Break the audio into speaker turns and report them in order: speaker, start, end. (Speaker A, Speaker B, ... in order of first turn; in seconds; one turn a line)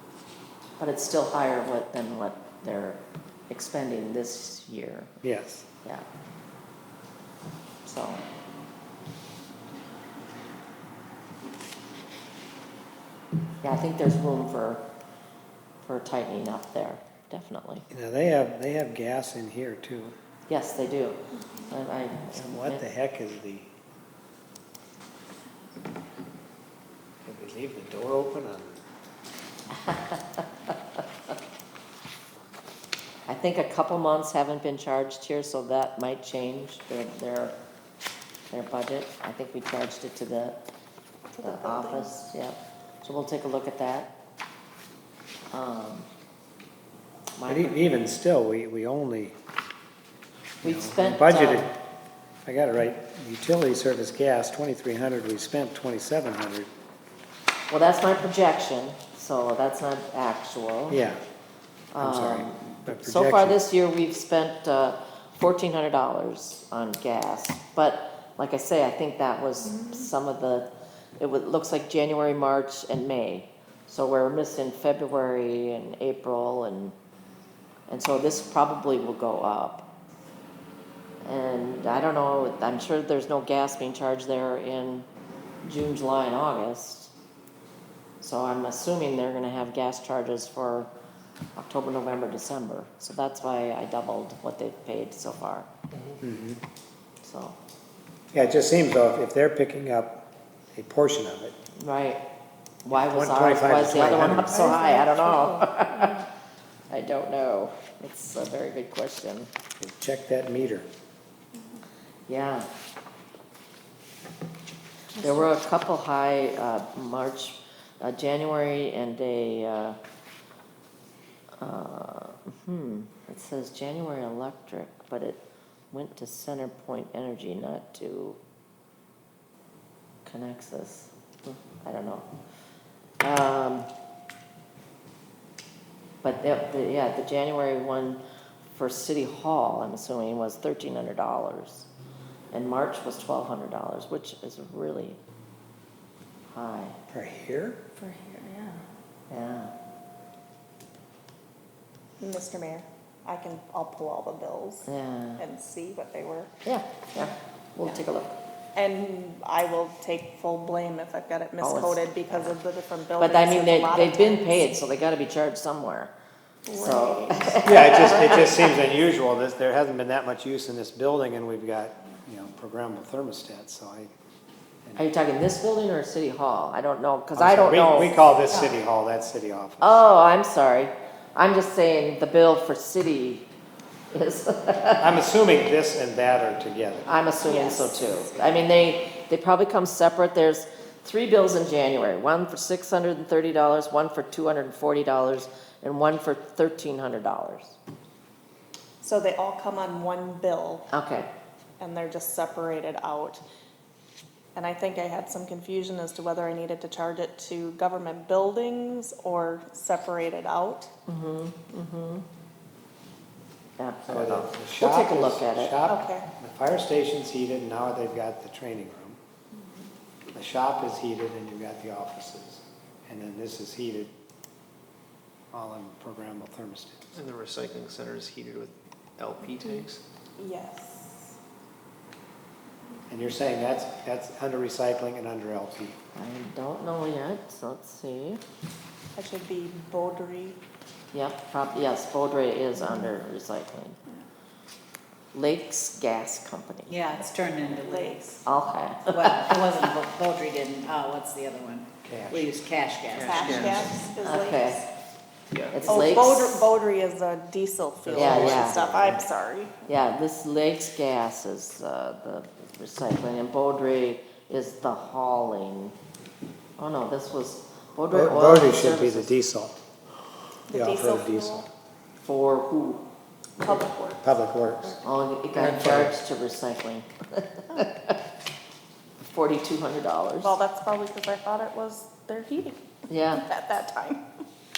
Speaker A: 0.8-5.1
Speaker B: 5.2-5.7
Speaker A: 7.8-8.2
Speaker A: 13.6-14.8
Speaker A: 15.8-17.8
Speaker B: 17.9-20.1
Speaker A: 20.5-22.8
Speaker B: 22.3-23.7
Speaker B: 27.2-28.8
Speaker A: 29.9-30.4
Speaker A: 33.3-37.5
Speaker A: 38.5-40.6
Speaker C: 41.3-42.3
Speaker A: 41.4-44.1
Speaker A: 45.5-46.1
Speaker A: 47.4-47.8
Speaker B: 47.5-49.4
Speaker A: 50.6-51.7
Speaker B: 50.6-51.7
Speaker B: 52.5-56.7
Speaker A: 57.7-61.0
Speaker B: 60.9-61.2
Speaker A: 61.9-77.0
Speaker B: 62.0-63.6
Speaker A: 77.9-79.9
Speaker A: 81.2-85.1
Speaker A: 85.7-87.1
Speaker A: 88.2-90.9
Speaker A: 91.6-95.7
Speaker B: 96.2-96.6
Speaker A: 97.2-97.6
Speaker B: 98.3-100.2
Speaker B: 100.7-101.5
Speaker A: 101.8-102.2
Speaker A: 102.8-106.3
Speaker B: 102.9-104.8
Speaker C: 104.6-106.1
Speaker A: 106.9-109.5
Speaker B: 109.8-110.9
Speaker A: 112.3-112.7
Speaker A: 115.2-120.0
Speaker A: 121.6-125.4
Speaker A: 125.9-128.4
Speaker A: 130.3-132.3
Speaker A: 133.2-133.9
Speaker A: 136.2-141.9
Speaker A: 142.5-145.2
Speaker A: 146.5-147.0
Speaker B: 147.1-147.8
Speaker D: 148.0-148.8
Speaker A: 149.3-149.7
Speaker C: 152.2-154.9
Speaker A: 154.9-155.4
Speaker C: 155.4-156.5
Speaker A: 156.7-158.4
Speaker C: 158.8-164.7
Speaker A: 161.6-162.5
Speaker A: 163.2-166.1
Speaker C: 166.7-168.3
Speaker A: 166.7-168.7
Speaker B: 167.6-174.1
Speaker A: 175.0-178.2
Speaker B: 177.3-180.0
Speaker A: 179.8-183.5
Speaker A: 184.1-185.1
Speaker B: 185.0-187.2
Speaker A: 187.1-197.8
Speaker C: 187.5-188.0
Speaker C: 199.0-200.9
Speaker A: 200.9-201.3
Speaker C: 201.8-203.4
Speaker C: 204.6-210.9
Speaker A: 211.1-212.2
Speaker A: 213.8-215.8
Speaker B: 214.1-219.2
Speaker C: 215.9-216.3
Speaker B: 220.3-224.1
Speaker B: 225.5-227.1
Speaker E: 227.1-230.0
Speaker C: 230.4-231.4
Speaker B: 233.1-236.0
Speaker A: 236.2-238.4
Speaker C: 239.2-240.6
Speaker A: 241.1-244.0
Speaker A: 245.3-247.1
Speaker D: 246.9-248.2
Speaker C: 247.7-248.4
Speaker A: 248.4-249.6
Speaker D: 249.1-253.8
Speaker B: 252.0-252.6
Speaker C: 253.1-254.9
Speaker E: 253.2-253.9
Speaker A: 254.2-254.8
Speaker E: 255.5-255.9
Speaker A: 255.7-256.7
Speaker C: 255.9-259.9
Speaker B: 258.1-259.2
Speaker A: 258.1-258.8
Speaker E: 258.2-258.7
Speaker A: 259.9-265.9
Speaker A: 266.8-269.3
Speaker B: 268.1-269.8
Speaker C: 270.7-271.7
Speaker B: 270.7-271.7
Speaker A: 272.2-273.0
Speaker C: 273.6-274.2
Speaker B: 274.2-275.0
Speaker A: 275.0-278.1
Speaker B: 275.6-276.1
Speaker A: 279.3-280.6
Speaker C: 280.4-284.2
Speaker A: 283.1-283.4